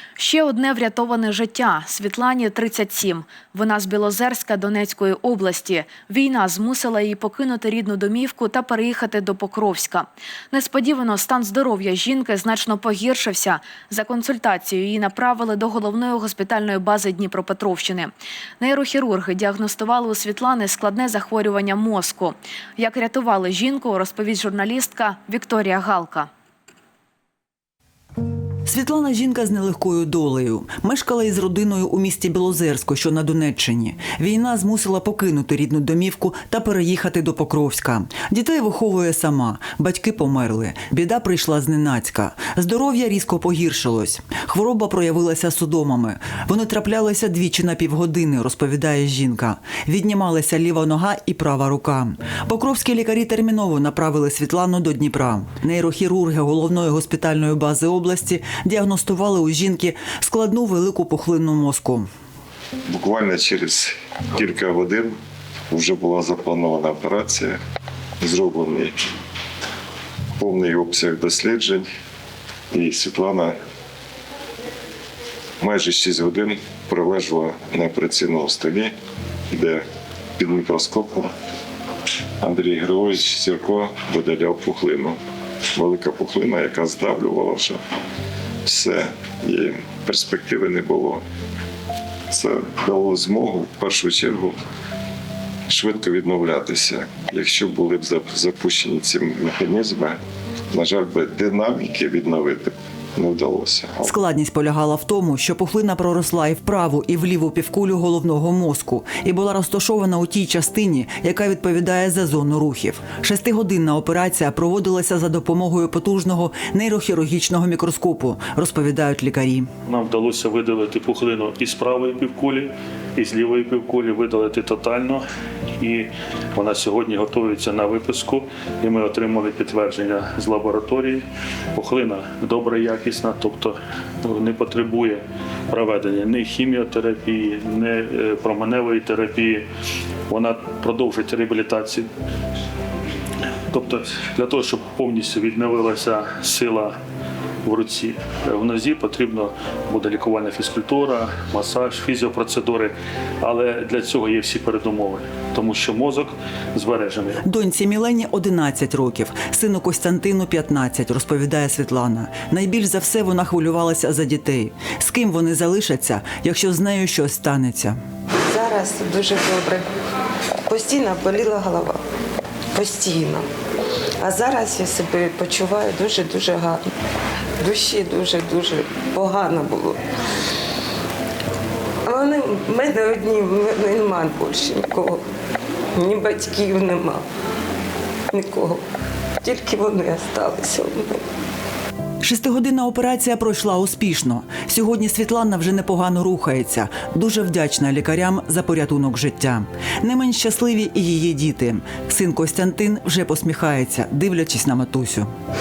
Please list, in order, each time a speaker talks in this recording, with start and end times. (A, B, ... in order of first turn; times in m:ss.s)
0:00.2-0:26.3 A
0:28.6-1:02.1 B
1:02.9-1:05.2 C
1:05.7-1:07.6 C
1:08.2-1:09.0 C
1:10.4-1:11.9 C
1:12.7-1:13.6 C
1:15.6-1:18.9 C
1:19.5-1:19.8 C
1:20.4-1:21.3 C
1:22.4-1:25.2 C
1:25.7-1:27.8 C
1:28.6-1:31.2 C
1:32.3-1:34.6 C
1:35.7-1:40.2 C
1:40.7-1:44.1 C
1:44.0-1:59.7 B
1:59.8-2:05.2 D
2:05.8-2:11.2 D
2:11.7-2:19.6 D
2:20.3-2:22.1 D
2:23.7-2:26.9 D
2:27.6-2:37.4 D
2:37.4-2:48.0 B
2:48.5-2:49.8 E
2:50.6-2:52.0 E
2:52.7-2:53.5 E
2:54.2-2:56.8 E
2:57.6-3:00.0 E
3:02.0-3:05.2 E
3:06.0-3:07.2 E
3:08.3-3:08.8 E
3:09.4-3:11.2 E
3:12.2-3:25.3 B